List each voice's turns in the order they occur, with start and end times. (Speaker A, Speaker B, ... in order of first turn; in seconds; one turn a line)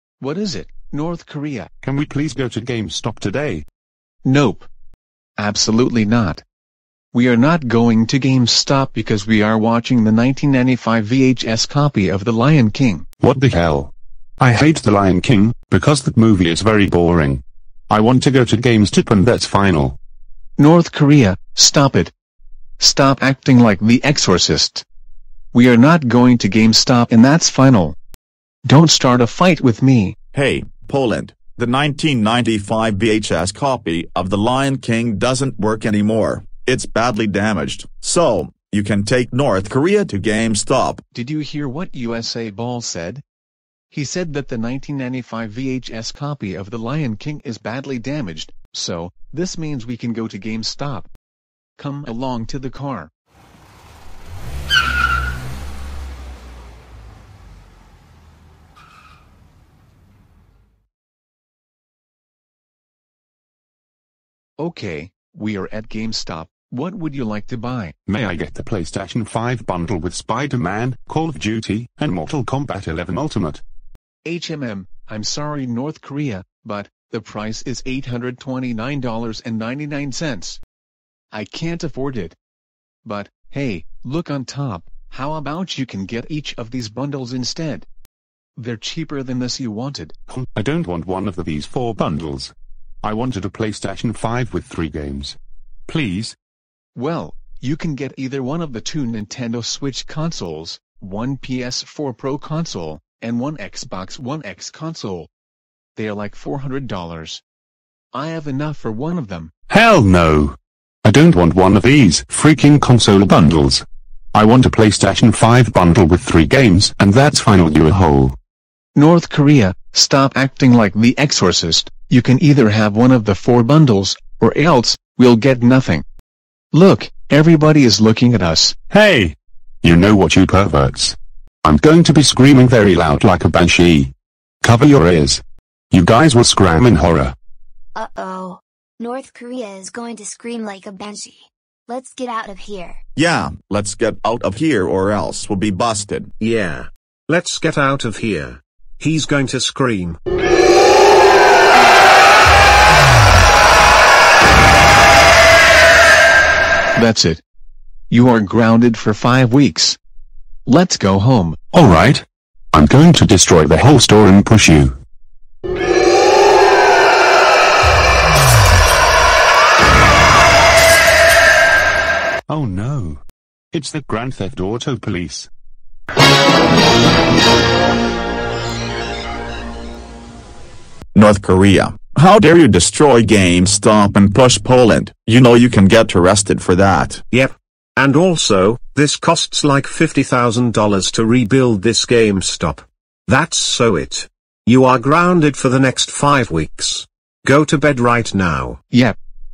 Speaker A: 0.2-1.7
Speaker B: 1.8-3.6
Speaker A: 4.2-4.7
Speaker A: 5.4-6.4
Speaker A: 7.1-13.0
Speaker B: 13.2-20.0
Speaker A: 20.6-22.1
Speaker A: 22.8-24.8
Speaker A: 25.5-27.9
Speaker A: 28.6-30.1
Speaker C: 30.3-41.0
Speaker A: 41.1-43.2
Speaker A: 43.9-51.1
Speaker A: 51.8-53.1
Speaker A: 64.6-67.9
Speaker B: 68.1-73.6
Speaker A: 74.2-80.6
Speaker A: 81.3-82.3
Speaker A: 83.0-87.9
Speaker A: 88.6-90.1
Speaker B: 90.3-95.4
Speaker B: 95.9-96.3
Speaker A: 96.9-105.3
Speaker A: 105.9-107.4
Speaker A: 108.1-109.5
Speaker B: 109.7-118.3
Speaker A: 118.9-126.0
Speaker A: 126.7-128.7
Speaker B: 128.9-134.1
Speaker B: 134.6-135.4
Speaker B: 135.9-137.3
Speaker D: 137.9-143.0
Speaker C: 143.2-146.3
Speaker E: 146.4-150.2
Speaker A: 156.9-157.4
Speaker A: 158.1-160.0
Speaker A: 160.7-161.6
Speaker B: 161.7-164.9
Speaker B: 172.5-173.2
Speaker B: 173.7-175.5
Speaker C: 181.1-187.2
Speaker E: 187.3-198.8
Speaker A: 198.9-199.2